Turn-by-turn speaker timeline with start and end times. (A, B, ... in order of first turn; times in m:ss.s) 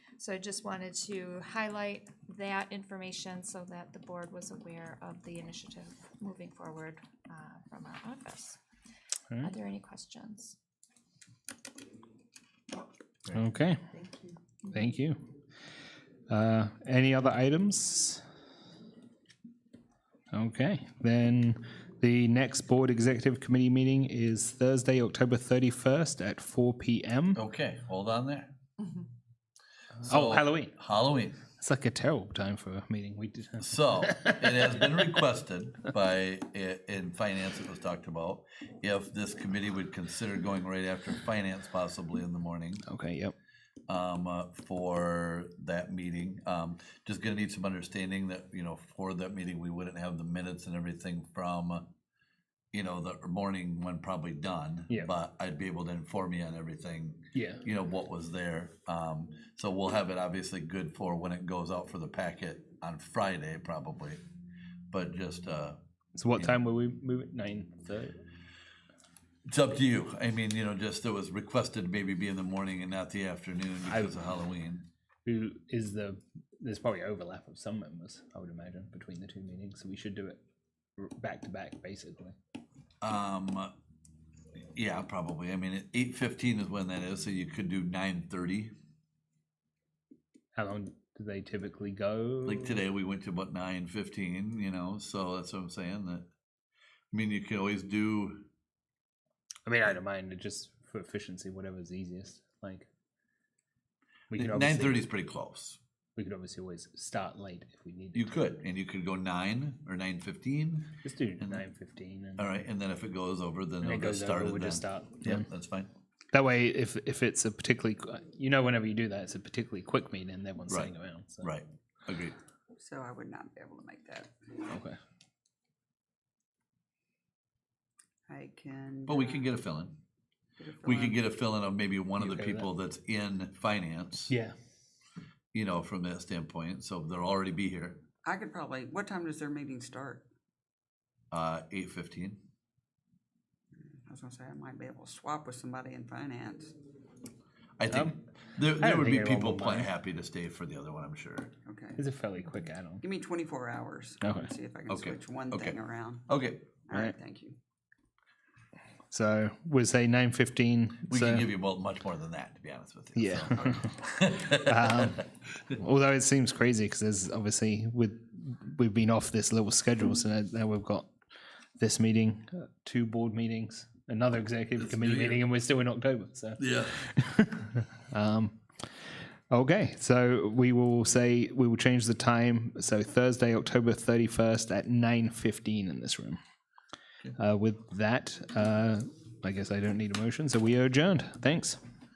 0:00.2-0:08.6 A
0:09.4-0:10.6 A
0:13.3-0:13.9 B
0:14.7-0:15.2 B
0:16.3-0:18.2 B
0:20.3-0:27.4 B
0:27.3-0:28.5 C
0:30.0-0:30.7 B
0:30.0-0:31.4 C
0:31.6-0:35.2 B
0:33.6-0:42.8 C
0:42.8-0:43.3 B
0:43.9-0:51.9 C
0:52.7-1:04.2 C
0:57.3-0:57.6 B
1:04.9-1:05.8 C
1:06.1-1:08.2 B
1:09.5-1:14.9 C
1:13.8-1:14.1 B
1:15.2-1:20.4 B
1:21.0-1:22.4 B
1:23.0-1:23.7 C
1:24.7-1:28.7 C
1:30.5-1:32.8 B
1:32.4-1:36.2 C
1:37.1-1:38.4 C
1:39.6-1:42.9 B
1:44.3-1:45.0 B
1:44.3-1:45.8 C
1:46.2-1:48.3 B
1:48.1-1:51.6 C
1:51.0-1:52.5 B
1:52.4-1:55.9 C
1:53.8-1:55.4 B
1:56.3-2:01.5 B
2:01.4-2:02.4 C
2:02.8-2:04.3 D
2:04.7-2:05.0 B
2:08.3-2:09.5 D
2:09.1-2:10.0 C
2:10.6-2:11.2 D
2:10.8-2:14.3 C
2:12.2-2:12.6 B
2:14.3-2:14.5 B
2:15.5-2:18.0 C
2:18.2-2:20.2 D
2:21.3-2:22.4 C
2:23.8-2:26.8 D
2:27.8-2:31.5 C
2:27.9-2:28.2 B
2:28.8-2:29.9 B
2:31.6-2:32.0 D
2:32.0-2:33.0 B
2:33.0-2:36.2 D
2:34.2-2:34.5 B
2:34.9-2:36.8 C
2:36.9-2:37.6 D
2:39.1-2:41.5 B
2:41.1-2:45.1 C
2:43.2-2:51.1 B
2:51.8-2:58.6 B
2:54.8-2:55.4 C
2:56.6-2:57.1 C
2:59.5-3:06.4 B
3:07.4-3:11.8 B